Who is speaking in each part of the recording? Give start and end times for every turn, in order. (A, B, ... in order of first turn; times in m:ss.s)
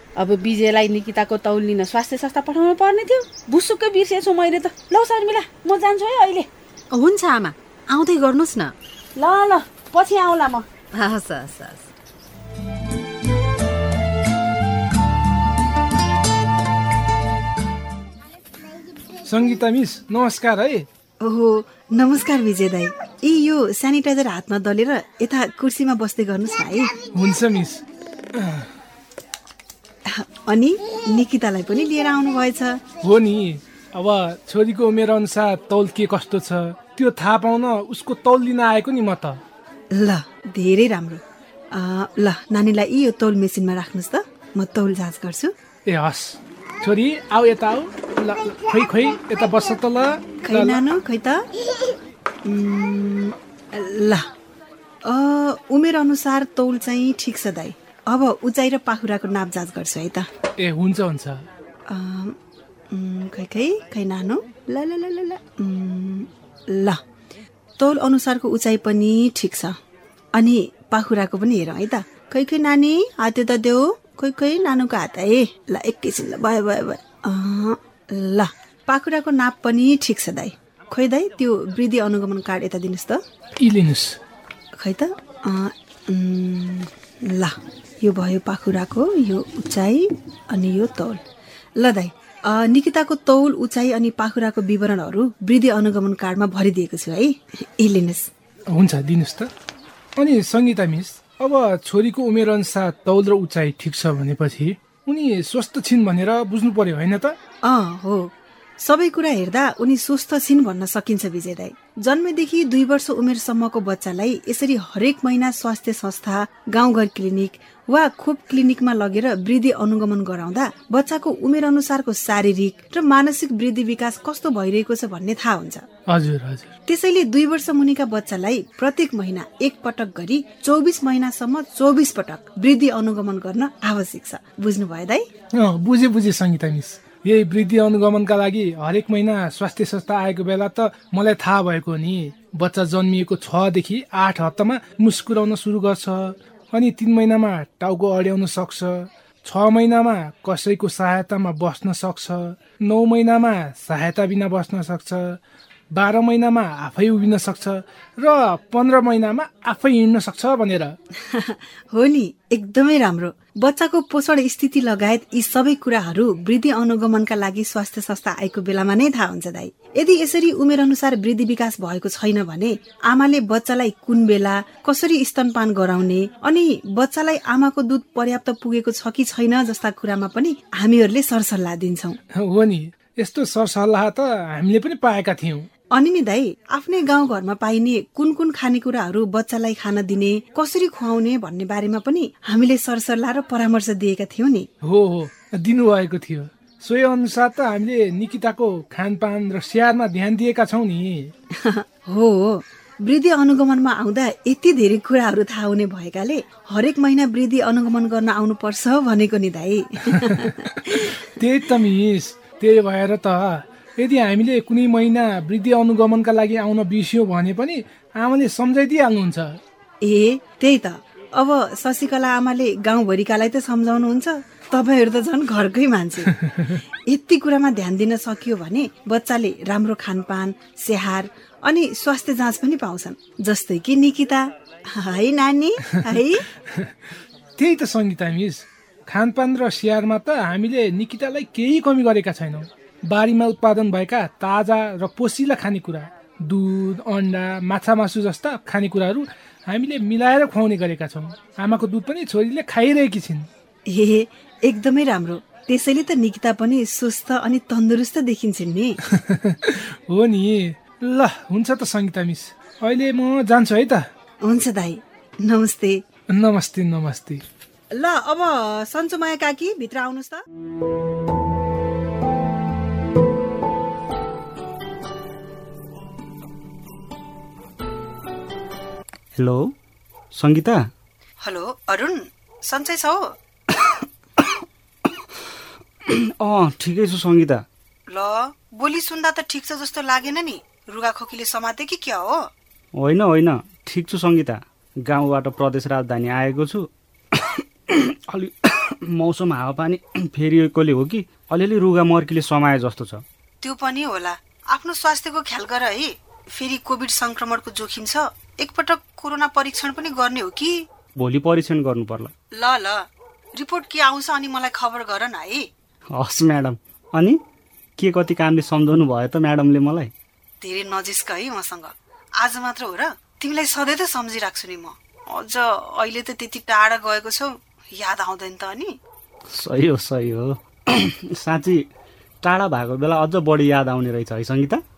0:00.2-0:06.5 A
0:06.9-0:08.7 B
0:09.2-0:10.7 A
0:10.9-0:11.9 B
0:19.2-0:20.9 C
0:21.2-0:27.0 D
0:27.1-0:27.8 C
0:28.4-0:28.7 C
0:30.1-0:32.8 D
0:33.0-0:39.4 C
0:39.9-0:45.5 D
0:45.8-0:50.8 C
0:50.4-0:51.4 D
0:52.4-0:54.3 D
0:55.0-1:00.3 D
1:00.6-1:01.4 C
1:01.9-1:02.4 D
1:02.9-1:07.0 D
1:07.8-1:09.8 D
1:10.3-1:23.2 D
1:23.6-1:24.2 C
1:24.8-1:31.2 D
1:31.8-1:38.3 D
1:38.7-1:39.5 C
1:40.2-1:47.4 C
1:47.6-2:05.8 D
2:06.1-2:06.7 C
2:06.9-2:15.3 D
2:15.5-2:35.4 C
2:35.9-2:41.0 C
2:41.3-3:02.2 D
3:02.4-3:05.7 C
3:05.9-3:14.7 D
3:14.8-3:21.3 C
3:21.5-3:31.1 D
3:30.2-3:39.6 C
3:40.0-3:46.3 D
3:47.1-3:56.4 D
3:56.7-3:56.9 C
3:57.6-4:13.5 C
4:13.9-4:19.0 D
4:19.1-4:24.0 C
4:24.4-4:26.0 D
4:26.3-4:27.4 C
4:27.9-4:30.4 D
4:39.3-4:39.7 E
4:40.3-4:40.9 E
4:41.4-4:43.3 D
4:43.7-4:45.2 E
4:46.1-4:47.6 E
4:48.1-4:52.5 D
4:53.0-5:03.2 E
5:03.6-5:10.8 D
5:11.2-5:12.3 E
5:12.5-5:15.7 D
5:16.1-5:17.4 E
5:18.0-5:20.1 E
5:20.6-5:29.0 D
5:29.5-5:31.9 E
5:32.4-5:34.8 E